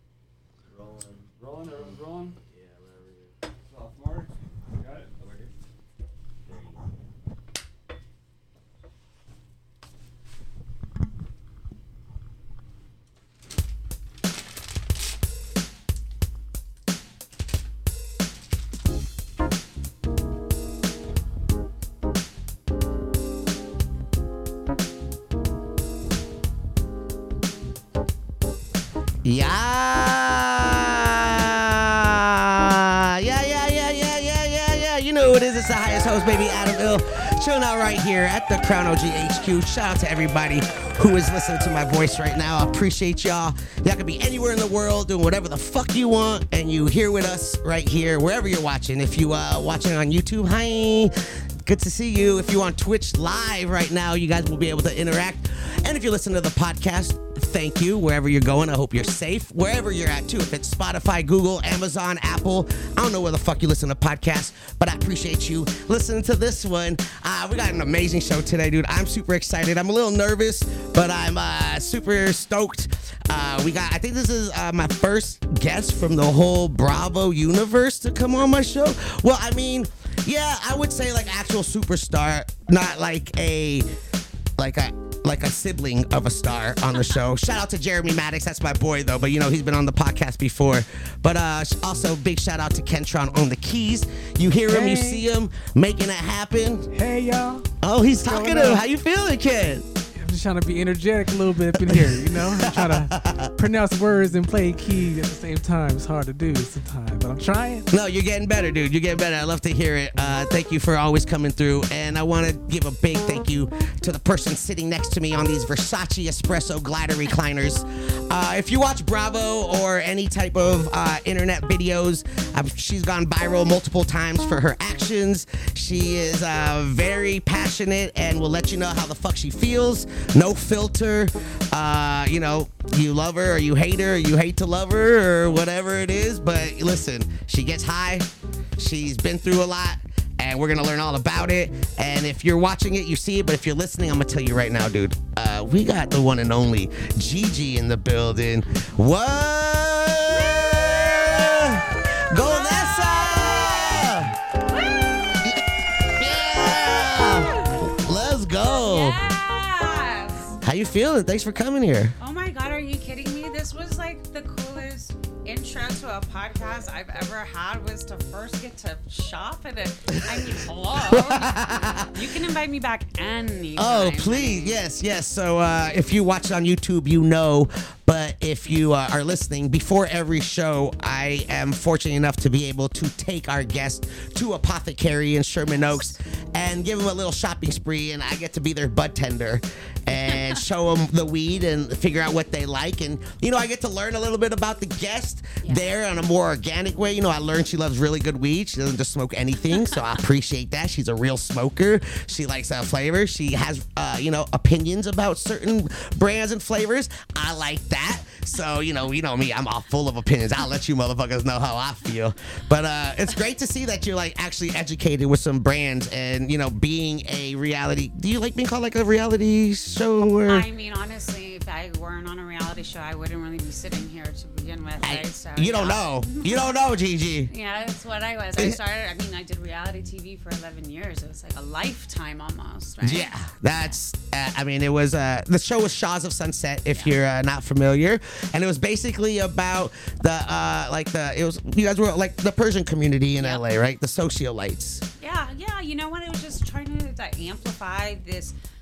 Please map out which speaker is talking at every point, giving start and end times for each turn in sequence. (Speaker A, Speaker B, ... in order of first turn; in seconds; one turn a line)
Speaker A: 0.7-3.4
Speaker B: 1.4-2.4
Speaker B: 3.7-5.5
Speaker A: 6.5-6.8
Speaker C: 29.2-83.9
Speaker C: 84.6-96.9
Speaker D: 94.7-95.2
Speaker D: 96.9-97.7
Speaker C: 97.8-99.8
Speaker D: 98.2-98.8
Speaker D: 100.2-107.9
Speaker C: 101.9-103.5
Speaker C: 107.9-154.4
Speaker E: 150.3-151.7
Speaker E: 152.3-155.4
Speaker C: 155.4-159.2
Speaker E: 157.1-157.9
Speaker E: 158.6-160.6
Speaker C: 160.6-162.2
Speaker E: 162.2-174.8
Speaker C: 170.3-172.2
Speaker C: 173.8-220.7
Speaker E: 185.6-186.1
Speaker E: 190.1-190.6
Speaker E: 195.6-195.9
Speaker E: 220.5-226.7
Speaker C: 225.0-227.5
Speaker E: 227.5-233.9
Speaker C: 233.0-245.1
Speaker E: 243.4-243.6
Speaker E: 245.2-248.6